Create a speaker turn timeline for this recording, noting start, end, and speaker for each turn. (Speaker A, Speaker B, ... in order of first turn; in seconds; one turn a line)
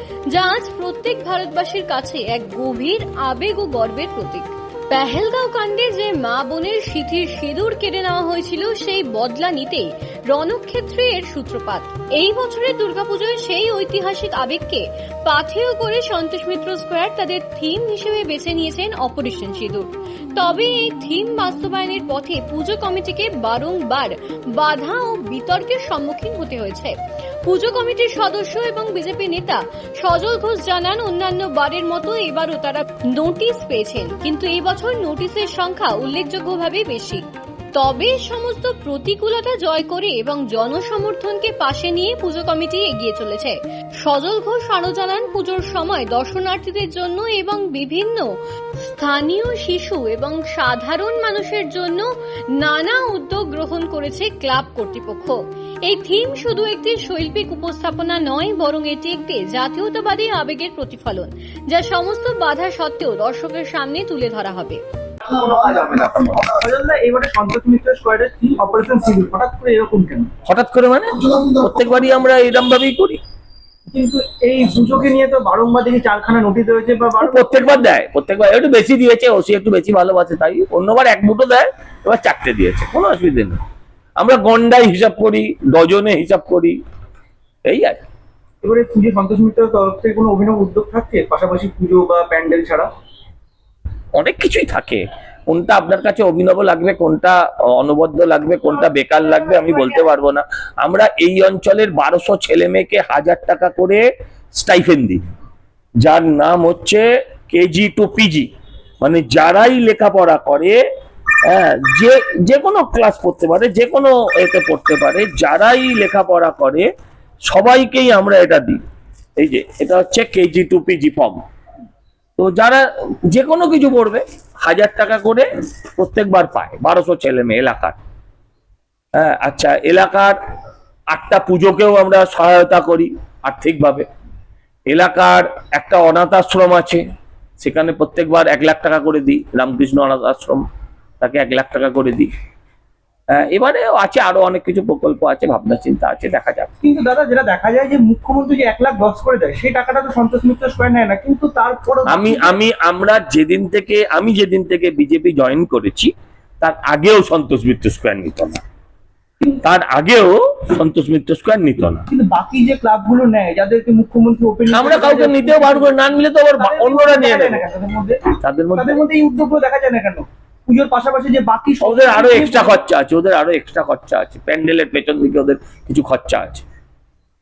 Speaker A: 0.3-26.9
Speaker A: 27.5-37.2
Speaker A: 37.8-48.3
Speaker A: 48.8-64.8
Speaker B: 65.3-70.3
Speaker C: 70.5-73.2
Speaker B: 73.9-77.8
Speaker C: 77.2-83.6
Speaker C: 84.2-86.8
Speaker C: 87.7-88.0
Speaker B: 88.6-92.9
Speaker C: 94.2-104.0
Speaker B: 98.8-100.1
Speaker C: 104.6-105.2
Speaker C: 106.0-108.5
Speaker C: 109.0-110.8
Speaker C: 111.5-116.9
Speaker C: 117.5-118.8
Speaker C: 119.4-121.4
Speaker C: 122.4-125.5
Speaker C: 126.0-128.0
Speaker C: 129.2-130.4
Speaker C: 131.1-134.1
Speaker C: 134.9-137.0
Speaker C: 137.6-140.6
Speaker C: 141.2-142.3
Speaker C: 143.3-146.7
Speaker B: 146.8-152.6
Speaker C: 152.1-158.6
Speaker C: 159.6-162.1
Speaker B: 162.1-165.9
Speaker C: 164.7-167.6
Speaker B: 166.6-168.2
Speaker C: 168.4-169.0
Speaker B: 168.8-172.8
Speaker C: 171.8-176.6